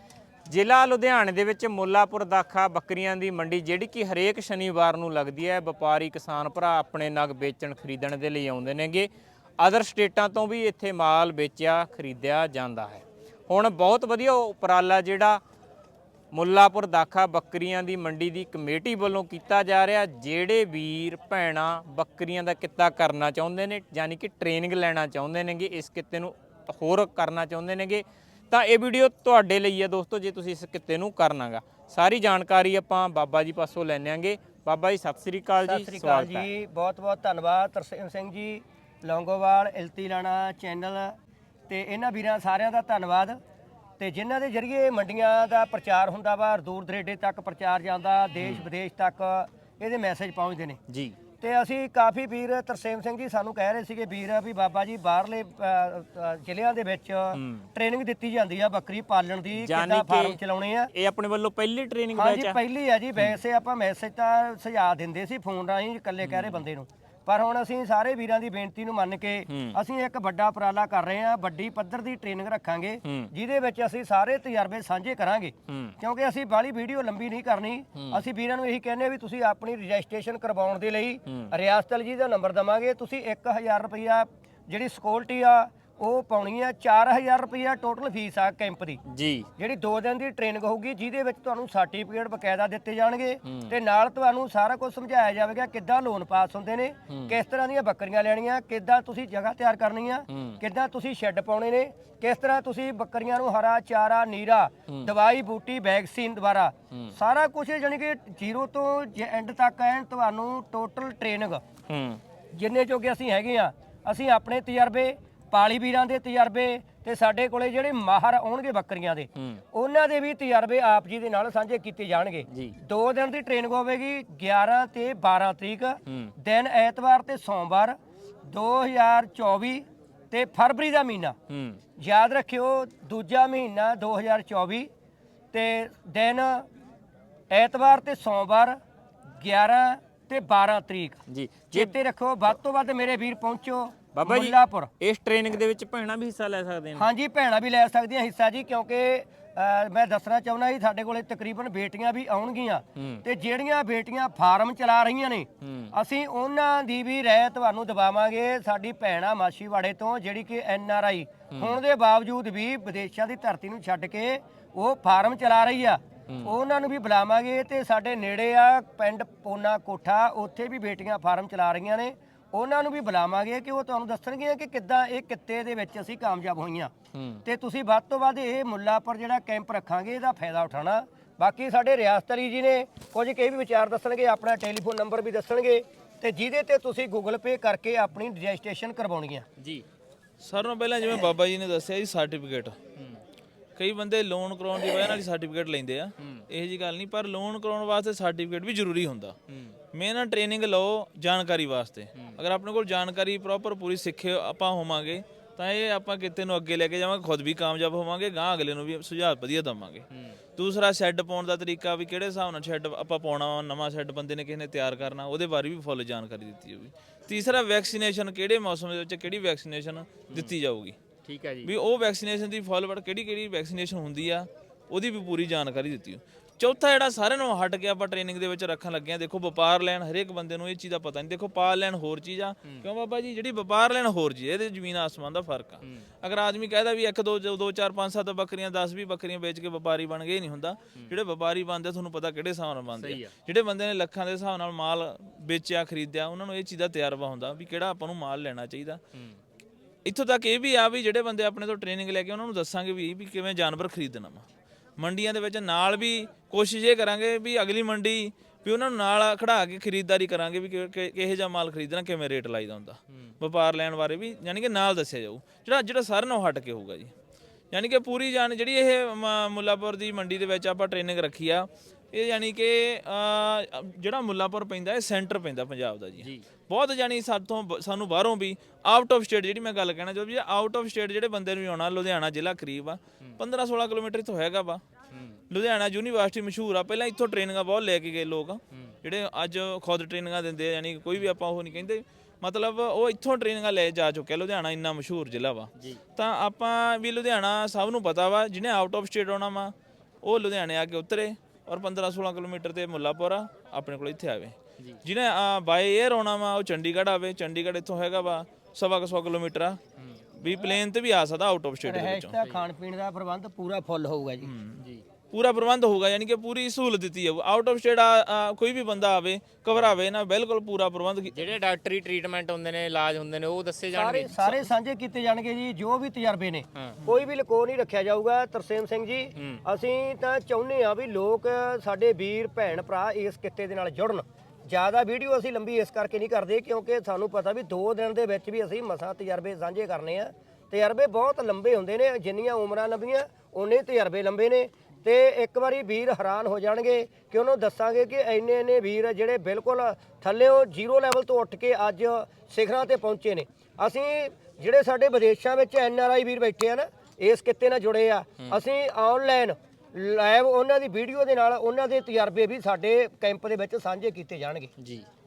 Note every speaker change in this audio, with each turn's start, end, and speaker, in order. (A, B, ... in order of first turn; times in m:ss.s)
0:00.5-0:15.4 A
0:16.3-0:36.5 A
0:35.6-0:41.1 B
0:41.7-0:43.4 B
0:44.0-0:50.8 B
0:50.9-0:51.2 A
0:51.4-1:00.9 B
0:57.3-0:57.6 A
0:59.6-1:00.4 A
1:00.9-1:02.6 A
1:02.2-1:29.0 B
1:06.2-1:06.6 A
1:09.5-1:09.8 A
1:13.0-1:13.3 A
1:15.7-1:16.0 A
1:18.0-1:18.2 A
1:29.0-1:29.5 A
1:29.6-1:51.6 B
1:33.4-1:33.7 A
1:37.1-1:37.3 A
1:40.3-1:40.6 A
1:51.9-1:52.2 A
1:52.5-2:08.0 B
1:59.4-1:59.6 A
2:06.1-2:06.3 A
2:08.5-2:11.4 B
2:11.5-2:11.8 A
2:12.0-2:14.9 B
2:15.5-2:16.7 B
2:17.5-2:18.8 B
2:19.4-2:21.2 B
2:21.3-2:21.9 A
2:21.7-2:24.9 B
2:24.1-2:27.1 A
2:27.0-2:56.9 B
2:33.0-2:33.2 A
2:35.6-2:35.9 A
2:41.5-2:41.8 A
2:57.1-2:57.4 A
2:57.4-3:09.4 B
3:09.6-3:09.8 A
3:10.4-3:12.8 C
3:13.8-3:19.4 C
3:16.2-3:16.4 A
3:19.5-3:19.8 A
3:19.9-3:30.0 C
3:30.1-3:30.4 A
3:30.6-3:41.0 C
3:41.2-3:41.7 A
3:41.6-4:09.0 C
4:03.0-4:03.3 A
4:10.0-4:14.4 C
4:15.0-4:27.1 C
4:27.7-4:44.8 C
4:45.1-4:45.4 A
4:45.5-5:09.8 C
5:10.4-5:12.4 C
5:11.8-5:14.5 B
5:14.4-5:14.8 C
5:15.3-5:21.4 C
5:21.3-5:24.7 A
5:23.9-6:04.7 B
6:04.8-6:05.0 A